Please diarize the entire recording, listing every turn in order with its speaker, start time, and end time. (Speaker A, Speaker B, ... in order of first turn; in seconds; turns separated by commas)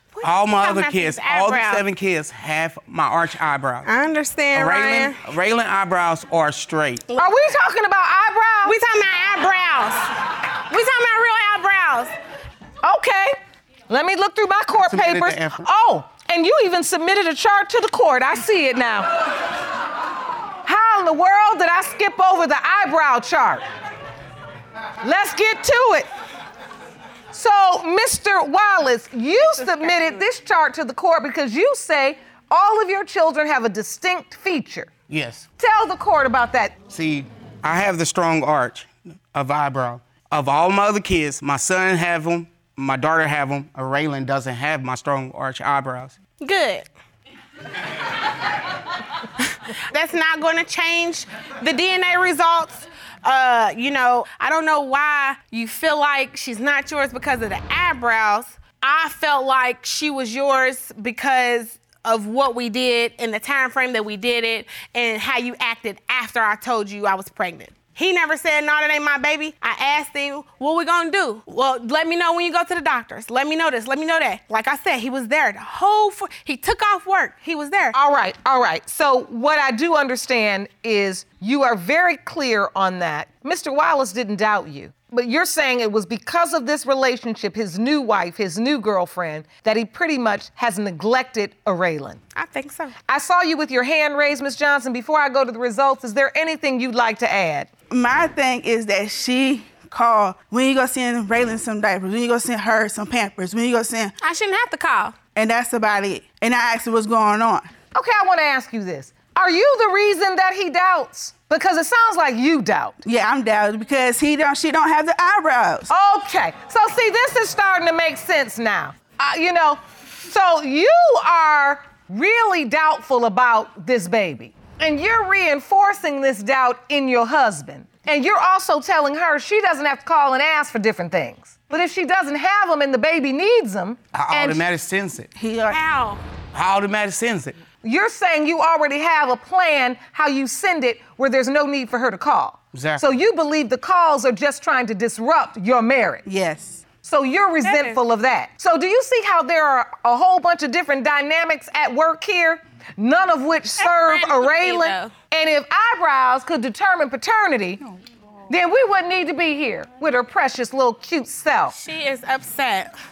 Speaker A: 0.1-1.9, Speaker B: 0.2-3.9, Speaker A: 3.9-5.2, Speaker B: 4.5-7.0, Speaker A: 7.1-7.4, Speaker C: 7.2-8.8, Speaker A: 8.6-12.1, Speaker C: 12.8-13.3, Speaker C: 13.9-19.1, Speaker B: 14.8-15.7, Speaker C: 20.6-23.6, Speaker C: 25.0-26.1, Speaker C: 27.3-34.9, Speaker A: 29.4-30.2, Speaker B: 35.1-35.5, Speaker C: 35.6-36.8, Speaker B: 36.9-46.2, Speaker A: 46.4-46.9, Speaker A: 49.9-78.0, Speaker C: 77.9-92.2, Speaker A: 92.4-93.0, Speaker C: 93.1-97.7, Speaker D: 97.9-104.1, Speaker A: 104.2-105.2, Speaker D: 105.3-107.7, Speaker C: 107.9-113.0, Speaker D: 113.0-115.9, Speaker C: 115.9-134.6, Speaker B: 134.1-135.3, Speaker D: 135.4-135.8, Speaker A: 135.7-136.2, Speaker B: 136.5-137.6, Speaker C: 137.8-146.2, Speaker B: 142.7-143.0, Speaker D: 146.3-146.8, Speaker C: 147.0-157.8, Speaker A: 147.6-148.0, Speaker A: 153.8-155.1, Speaker C: 158.5-161.8, Speaker A: 161.7-162.9